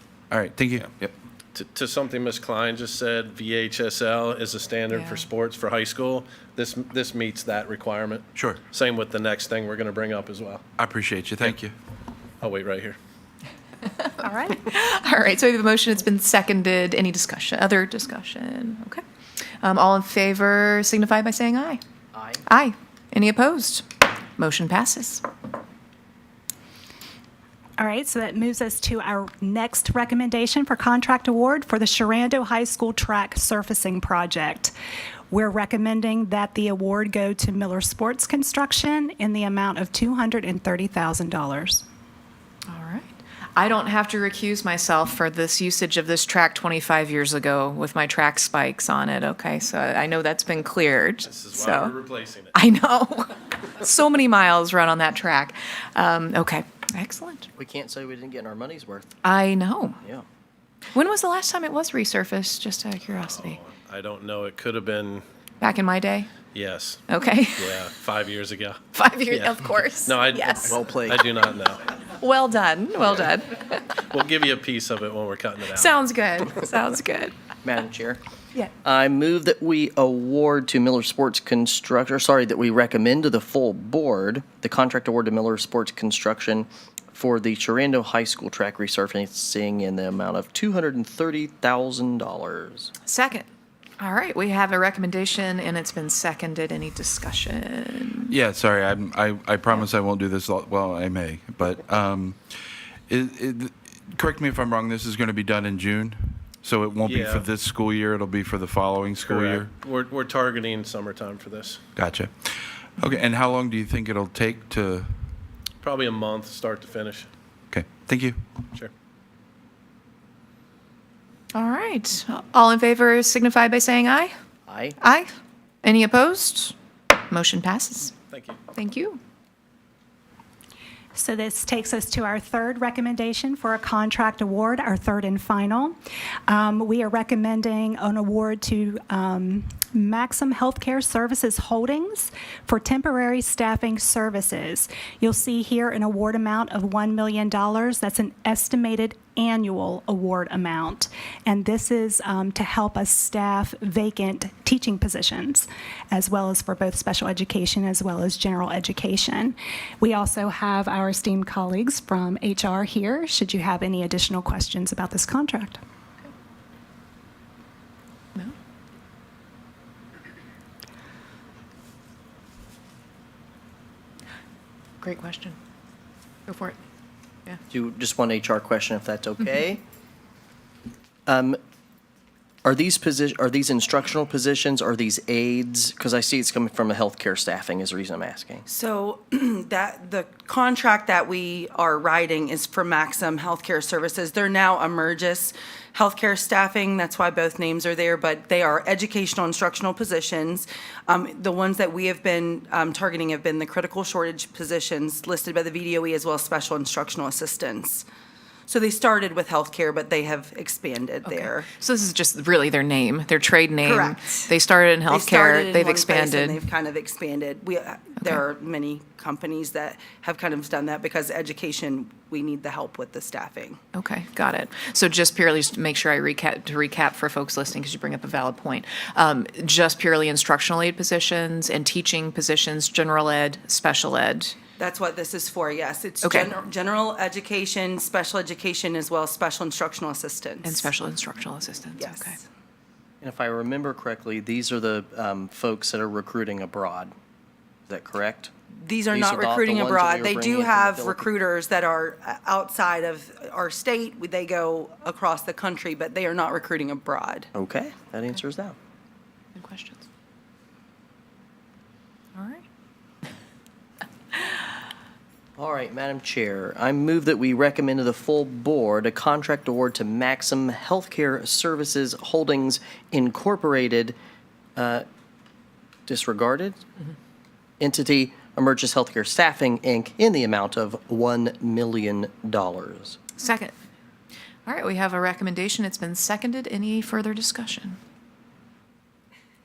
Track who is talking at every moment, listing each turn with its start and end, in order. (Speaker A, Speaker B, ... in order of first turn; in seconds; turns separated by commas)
Speaker A: 0.3-1.1, Speaker B: 1.5-10.6, Speaker C: 4.9-5.2, Speaker A: 8.3-8.6, Speaker A: 10.8-11.7, Speaker B: 12.4-13.0, Speaker C: 14.0-19.0, Speaker D: 14.2-14.6, Speaker C: 19.6-21.8, Speaker E: 22.1-22.4, Speaker C: 22.4-23.8, Speaker C: 24.4-25.2, Speaker D: 27.8-34.7, Speaker D: 35.3-41.8, Speaker C: 42.7-51.9, Speaker B: 51.2-52.5, Speaker C: 52.5-57.5, Speaker E: 57.6-59.1, Speaker C: 59.2-60.0, Speaker C: 60.9-63.6, Speaker B: 63.3-65.2, Speaker C: 65.6-66.3, Speaker B: 66.5-67.0, Speaker C: 67.1-67.7, Speaker B: 67.6-68.8, Speaker C: 68.9-70.7, Speaker B: 69.3-71.9, Speaker E: 70.7-71.2, Speaker C: 72.2-74.0, Speaker B: 74.1-75.9, Speaker C: 75.7-77.3, Speaker E: 77.6-78.2, Speaker E: 78.8-92.9, Speaker C: 93.0-93.5, Speaker C: 94.0-98.3, Speaker A: 98.3-102.4, Speaker A: 103.1-109.7, Speaker B: 107.0-107.5, Speaker B: 109.2-111.8, Speaker A: 112.0-115.1, Speaker B: 115.8-117.3, Speaker A: 117.7-118.4, Speaker C: 121.5-124.3, Speaker E: 124.7-124.9, Speaker C: 125.0-125.3, Speaker C: 125.8-128.1, Speaker B: 128.3-128.6, Speaker C: 128.7-129.2, Speaker D: 131.1-135.9, Speaker D: 136.5-165.8, Speaker C: 175.0-175.6, Speaker C: 176.5-176.8, Speaker E: 177.7-179.8, Speaker E: 181.3-181.6, Speaker E: 182.6-188.6, Speaker F: 188.7-208.0, Speaker F: 208.7-211.7, Speaker C: 211.2-216.6, Speaker F: 213.8-214.4, Speaker F: 215.1-223.8, Speaker C: 223.9-234.5, Speaker F: 234.8-240.9, Speaker C: 236.2-236.5, Speaker C: 240.6-242.4, Speaker F: 242.0-242.4, Speaker E: 243.2-247.1, Speaker E: 247.9-248.5, Speaker F: 248.8-257.5, Speaker E: 249.1-251.3, Speaker E: 257.5-258.7, Speaker C: 259.6-260.0, Speaker C: 262.3-262.6, Speaker E: 265.6-274.1, Speaker E: 274.8-275.0, Speaker E: 276.1-276.8, Speaker E: 277.8-283.2, Speaker C: 283.4-283.7, Speaker C: 284.6-288.0